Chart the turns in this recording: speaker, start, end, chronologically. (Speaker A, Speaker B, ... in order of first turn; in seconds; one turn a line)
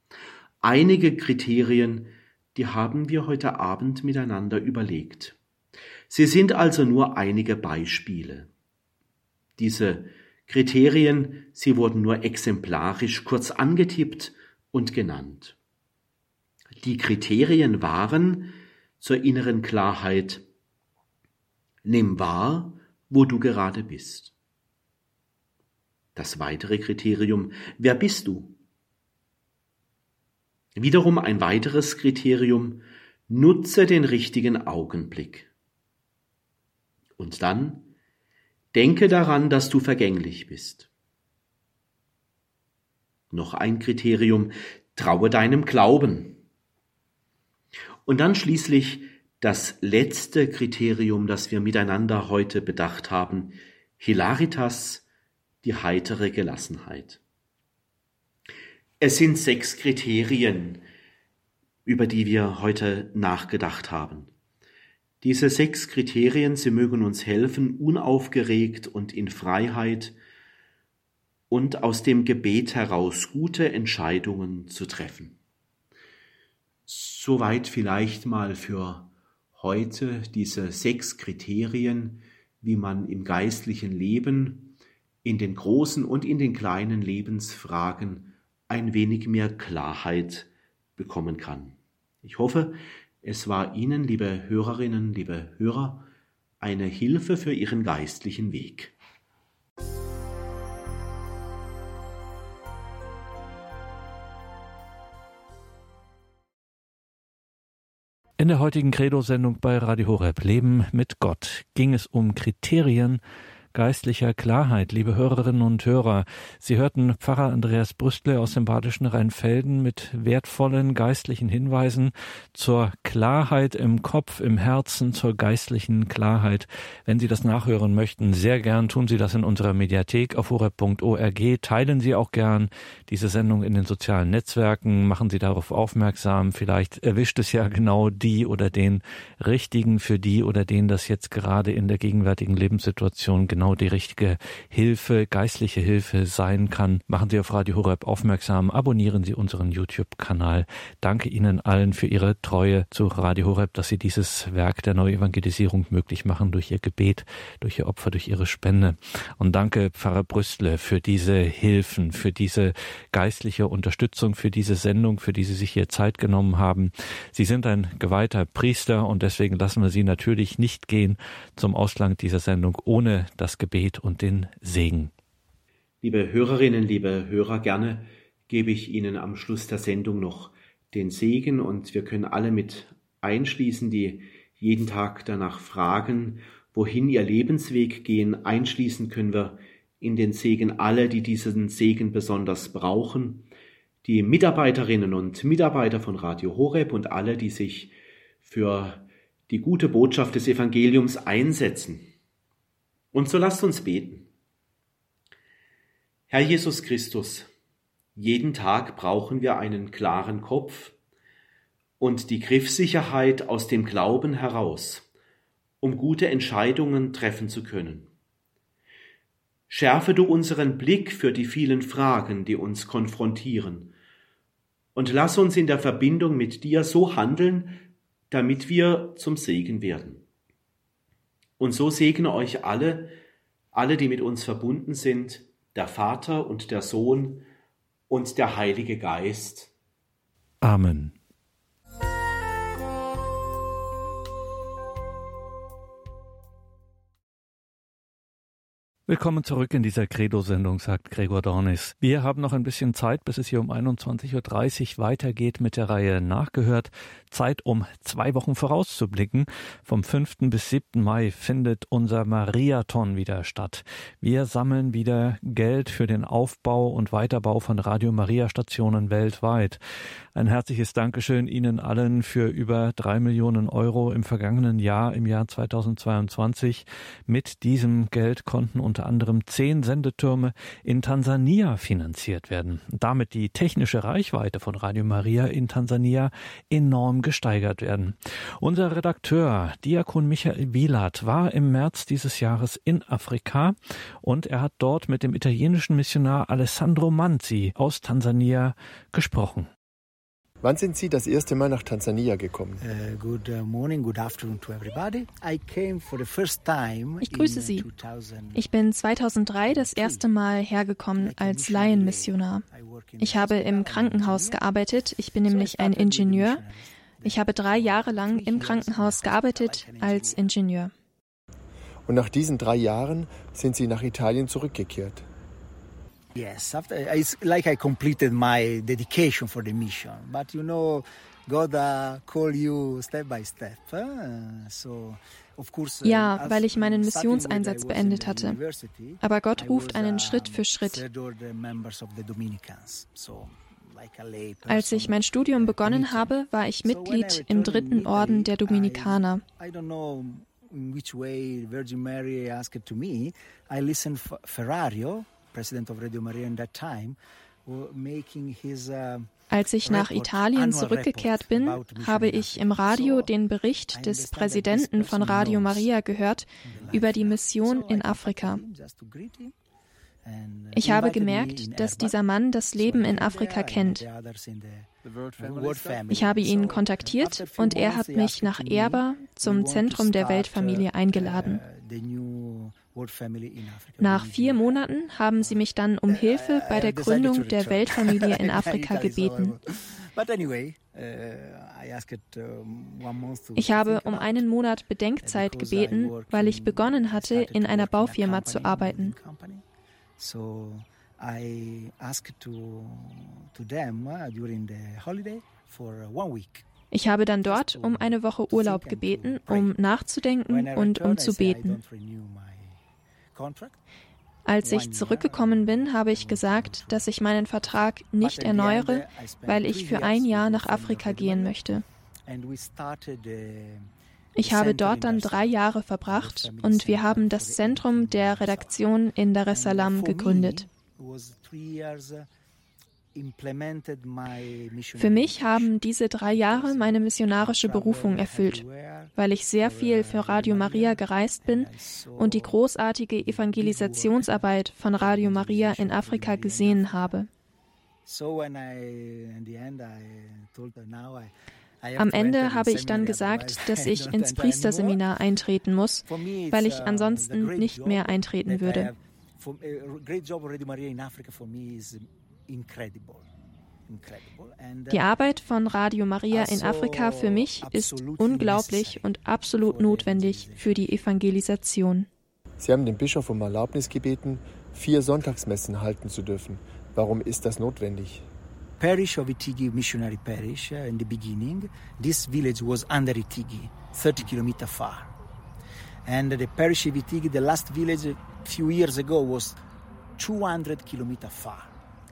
Speaker A: 0.6-5.4
Speaker A: 6.1-8.5
Speaker A: 9.6-15.6
Speaker A: 16.8-20.4
Speaker A: 21.8-24.3
Speaker A: 26.1-28.6
Speaker A: 30.8-35.5
Speaker A: 37.2-37.9
Speaker A: 38.7-40.9
Speaker A: 43.3-46.4
Speaker A: 48.0-55.0
Speaker A: 55.6-57.2
Speaker A: 59.0-60.8
Speaker A: 61.9-64.3
Speaker A: 65.2-70.2
Speaker A: 71.5-75.4
Speaker A: 76.9-96.1
Speaker A: 96.6-98.9
Speaker B: 108.4-113.2
Speaker B: 113.7-175.1
Speaker A: 176.0-193.5
Speaker A: 194.0-202.1
Speaker A: 203.1-204.3
Speaker A: 206.3-207.5
Speaker A: 208.2-210.9
Speaker A: 212.0-215.1
Speaker A: 215.8-218.1
Speaker A: 219.7-223.9
Speaker A: 224.9-227.8
Speaker A: 228.3-230.2
Speaker A: 231.6-233.1
Speaker A: 233.7-237.4
Speaker A: 238.1-239.7
Speaker B: 240.6-241.1
Speaker B: 249.1-269.8
Speaker B: 270.3-299.7
Speaker C: 300.6-302.8
Speaker D: 302.8-308.6
Speaker E: 307.2-307.9
Speaker E: 308.5-312.6
Speaker D: 309.6-310.2
Speaker D: 311.2-314.6
Speaker E: 313.2-316.6
Speaker D: 315.4-320.4
Speaker E: 317.2-320.9
Speaker C: 322.1-325.2
Speaker D: 326.3-346.3
Speaker E: 336.0-338.6
Speaker E: 339.2-341.0
Speaker E: 344.7-349.4
Speaker D: 346.8-359.3
Speaker E: 359.5-368.6
Speaker D: 359.8-363.3
Speaker D: 363.9-365.9
Speaker D: 366.6-369.5
Speaker D: 370.2-372.2
Speaker E: 370.7-374.1
Speaker D: 372.8-384.8
Speaker C: 375.1-376.0
Speaker E: 376.1-381.6
Speaker E: 384.0-389.5
Speaker D: 385.4-394.4
Speaker E: 393.6-399.1
Speaker D: 395.2-399.6
Speaker D: 400.2-406.6
Speaker E: 406.9-411.8
Speaker D: 407.4-409.7
Speaker D: 410.5-412.8
Speaker D: 413.3-413.8
Speaker E: 414.4-421.8
Speaker D: 414.6-417.1
Speaker D: 418.2-421.6
Speaker D: 422.3-423.9
Speaker E: 424.4-430.6
Speaker D: 424.4-425.5
Speaker D: 426.1-428.8
Speaker D: 429.5-432.3
Speaker D: 433.1-435.7
Speaker E: 435.0-438.6
Speaker D: 436.2-442.5
Speaker E: 439.1-447.3
Speaker D: 443.2-447.2
Speaker D: 448.1-451.3
Speaker D: 451.8-455.0
Speaker E: 452.0-458.9
Speaker D: 456.1-463.2
Speaker D: 463.9-465.1
Speaker E: 464.9-472.1
Speaker D: 466.3-470.8
Speaker C: 472.6-478.2
Speaker D: 478.8-485.1
Speaker D: 486.1-489.6
Speaker D: 490.2-491.7